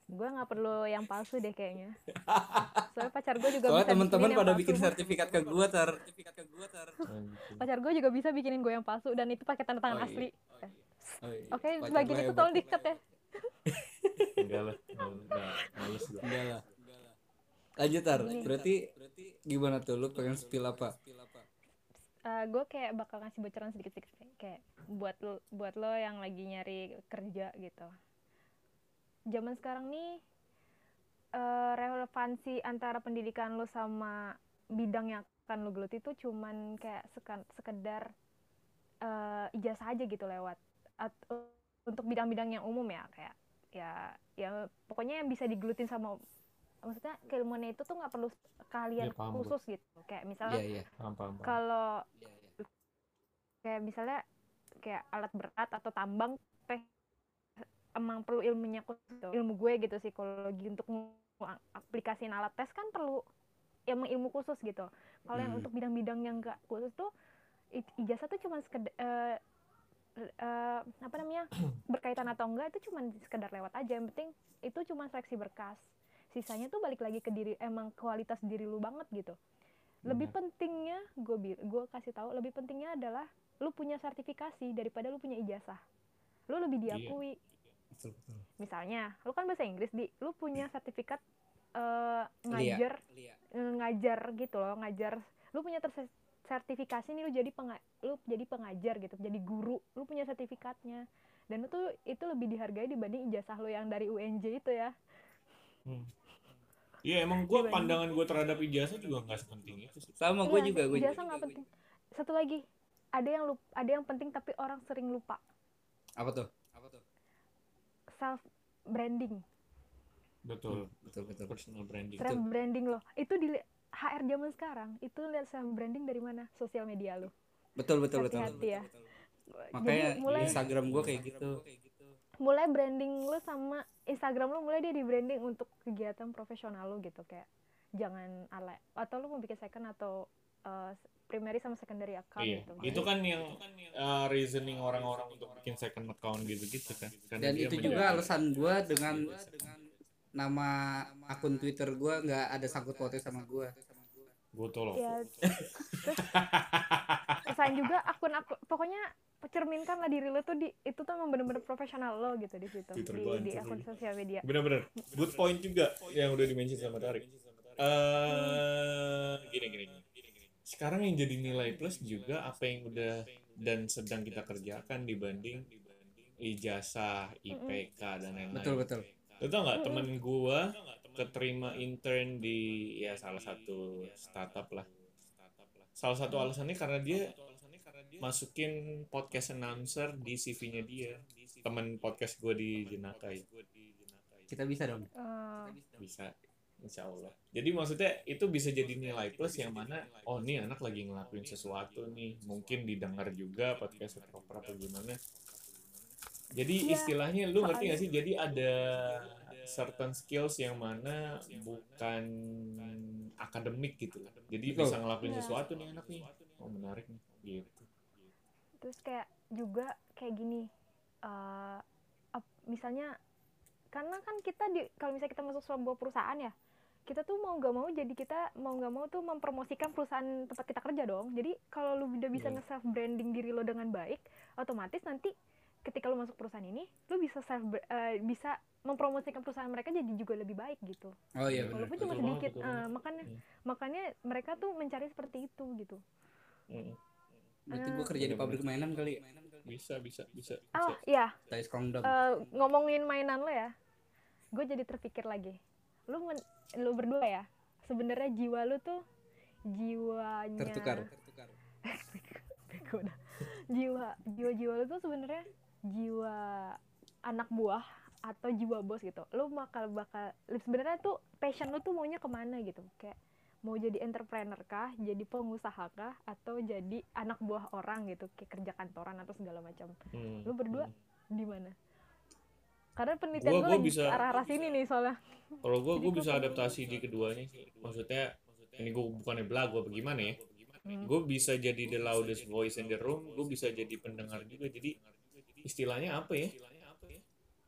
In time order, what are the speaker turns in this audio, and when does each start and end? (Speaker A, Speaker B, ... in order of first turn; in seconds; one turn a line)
Speaker A: 0.1-2.0
Speaker B: 2.1-6.9
Speaker A: 2.9-5.0
Speaker C: 7.0-7.7
Speaker A: 7.6-13.5
Speaker B: 9.9-10.3
Speaker B: 11.2-12.6
Speaker B: 14.1-14.4
Speaker C: 14.4-16.3
Speaker B: 16.2-16.7
Speaker B: 17.8-18.9
Speaker A: 18.1-18.5
Speaker B: 19.4-21.0
Speaker A: 22.3-27.9
Speaker A: 29.3-30.2
Speaker A: 31.4-38.1
Speaker A: 39.0-46.2
Speaker A: 46.8-50.6
Speaker C: 49.0-49.5
Speaker B: 50.5-50.9
Speaker C: 51.0-51.6
Speaker A: 51.4-52.1
Speaker A: 53.6-54.2
Speaker A: 54.8-56.9
Speaker A: 58.0-63.2
Speaker A: 63.9-67.1
Speaker C: 65.3-65.6
Speaker A: 67.8-69.4
Speaker A: 70.2-79.4
Speaker A: 80.0-85.8
Speaker C: 80.1-80.3
Speaker A: 86.5-87.4
Speaker C: 86.9-87.2
Speaker B: 88.0-88.4
Speaker A: 88.6-91.2
Speaker A: 91.8-93.0
Speaker B: 92.5-92.8
Speaker A: 93.5-104.9
Speaker C: 105.9-106.1
Speaker C: 107.0-110.2
Speaker A: 107.5-108.0
Speaker B: 110.2-111.2
Speaker A: 110.4-112.6
Speaker A: 113.2-115.4
Speaker B: 116.2-117.0
Speaker A: 118.2-119.4
Speaker C: 120.5-121.0
Speaker B: 120.7-121.5
Speaker C: 121.5-122.4
Speaker A: 122.2-127.3
Speaker B: 127.8-128.7
Speaker A: 128.1-128.9
Speaker A: 129.6-130.6
Speaker B: 129.7-131.6
Speaker C: 130.3-131.2
Speaker A: 132.4-137.5
Speaker A: 138.0-143.1
Speaker C: 142.4-148.3
Speaker B: 142.8-143.1
Speaker B: 147.4-149.7
Speaker A: 147.8-148.2
Speaker C: 149.3-149.7
Speaker B: 150.4-153.8
Speaker C: 154.5-157.8
Speaker A: 154.9-155.4
Speaker A: 157.5-164.4
Speaker C: 162.9-163.9
Speaker C: 164.4-167.3
Speaker C: 167.8-170.1
Speaker A: 168.3-168.6
Speaker C: 170.7-175.7
Speaker C: 176.4-184.9
Speaker A: 177.5-177.8
Speaker B: 178.5-179.1
Speaker A: 179.7-180.1
Speaker C: 186.0-187.3
Speaker C: 188.2-193.5
Speaker B: 194.5-195.1
Speaker A: 195.2-195.8
Speaker C: 196.0-205.2
Speaker C: 206.6-217.9
Speaker A: 206.8-208.1
Speaker B: 214.7-215.0
Speaker A: 215.2-215.6
Speaker A: 218.8-220.7
Speaker A: 221.2-221.8
Speaker A: 222.4-223.1
Speaker A: 223.9-226.5
Speaker A: 227.1-235.3
Speaker A: 235.9-241.2
Speaker B: 241.4-242.0
Speaker C: 241.5-243.4
Speaker A: 241.7-246.0
Speaker C: 246.7-247.0
Speaker B: 247.7-249.3
Speaker A: 247.7-248.1
Speaker C: 248.2-248.6
Speaker C: 249.7-251.0
Speaker A: 250.8-251.3
Speaker B: 251.5-252.2
Speaker A: 252.0-253.7
Speaker A: 254.5-259.0
Speaker A: 259.7-261.1
Speaker B: 260.6-261.1
Speaker A: 261.9-279.9
Speaker C: 280.1-280.9
Speaker A: 280.5-281.8
Speaker A: 283.0-286.8
Speaker C: 283.4-284.2
Speaker C: 285.6-290.4
Speaker C: 291.0-294.9
Speaker C: 295.6-296.7